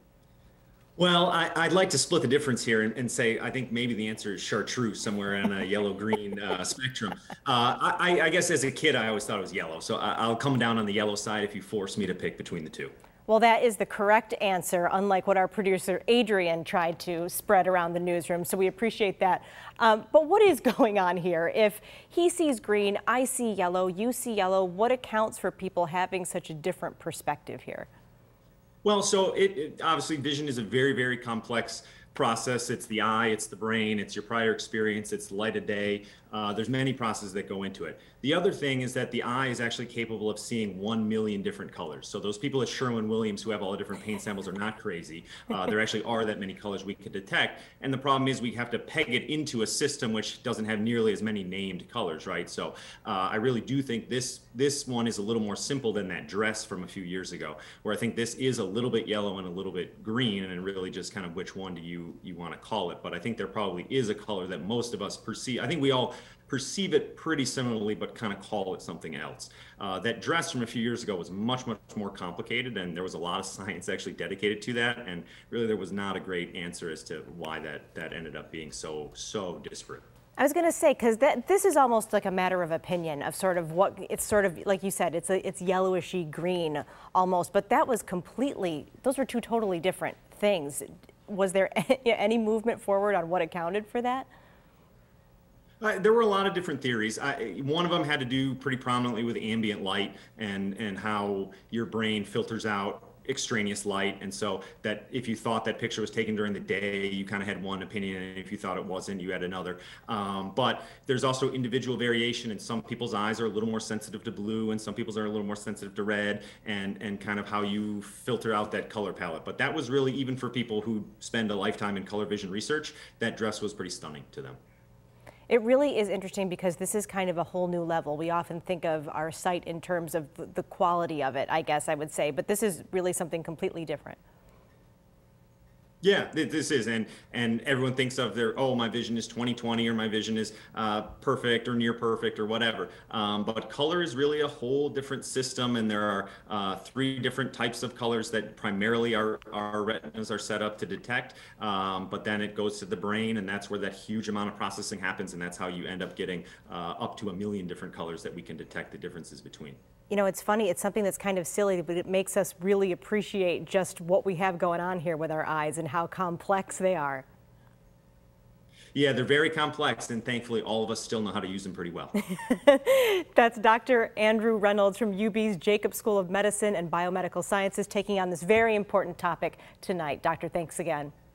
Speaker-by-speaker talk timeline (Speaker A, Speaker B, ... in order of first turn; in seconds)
Speaker A: 1.0-12.9, 28.8-80.0, 95.8-124.6, 136.0-159.8, 168.9-172.1
Speaker B: 13.3-27.9, 80.4-94.3, 125.5-134.2, 160.1-167.2, 172.3-181.1